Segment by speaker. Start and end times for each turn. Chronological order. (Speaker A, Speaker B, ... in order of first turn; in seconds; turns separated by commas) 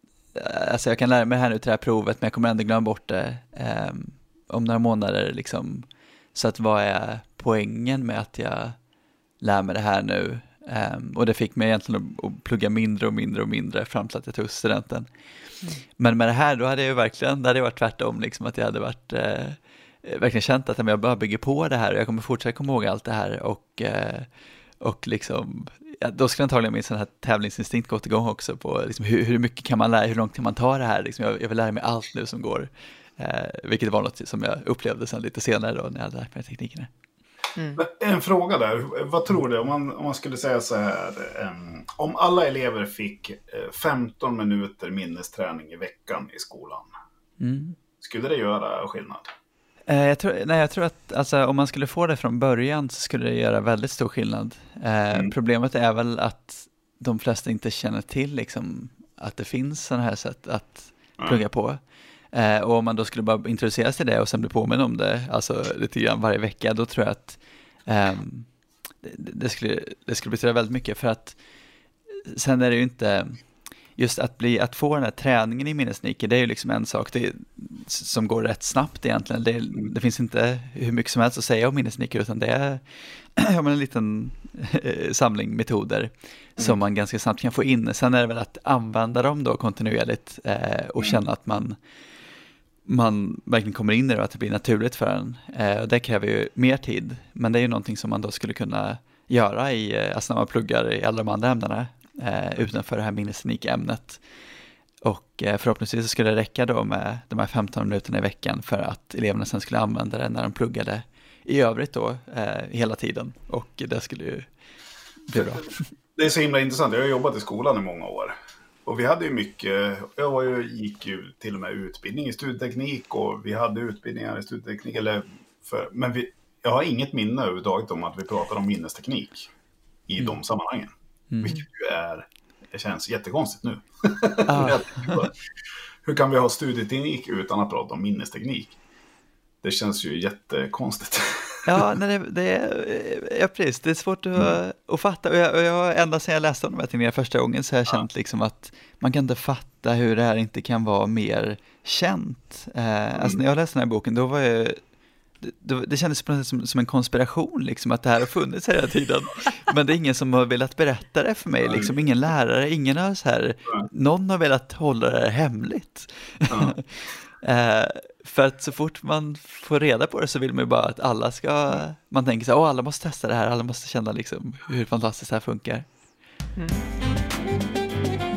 Speaker A: 0.3-8.8, Speaker A: 9.4-15.1, Speaker A: 16.0-24.3, Speaker A: 24.8-36.9, Speaker B: 37.8-46.9, Speaker A: 47.4-47.8, Speaker B: 48.0-49.3, Speaker A: 49.9-61.8, Speaker A: 62.3-68.5, Speaker A: 69.0-71.4, Speaker A: 72.1-73.4, Speaker A: 74.0-91.8, Speaker A: 92.8-104.2, Speaker A: 105.0-114.5, Speaker A: 115.3-115.7, Speaker B: 115.3-115.6, Speaker B: 116.2-118.3, Speaker B: 118.9-129.5, Speaker B: 130.1-135.3, Speaker A: 134.5-135.3, Speaker B: 136.1-138.8, Speaker B: 139.6-141.8, Speaker A: 141.7-154.8, Speaker A: 155.4-166.8, Speaker B: 161.6-161.9, Speaker B: 166.5-166.8, Speaker A: 167.4-175.9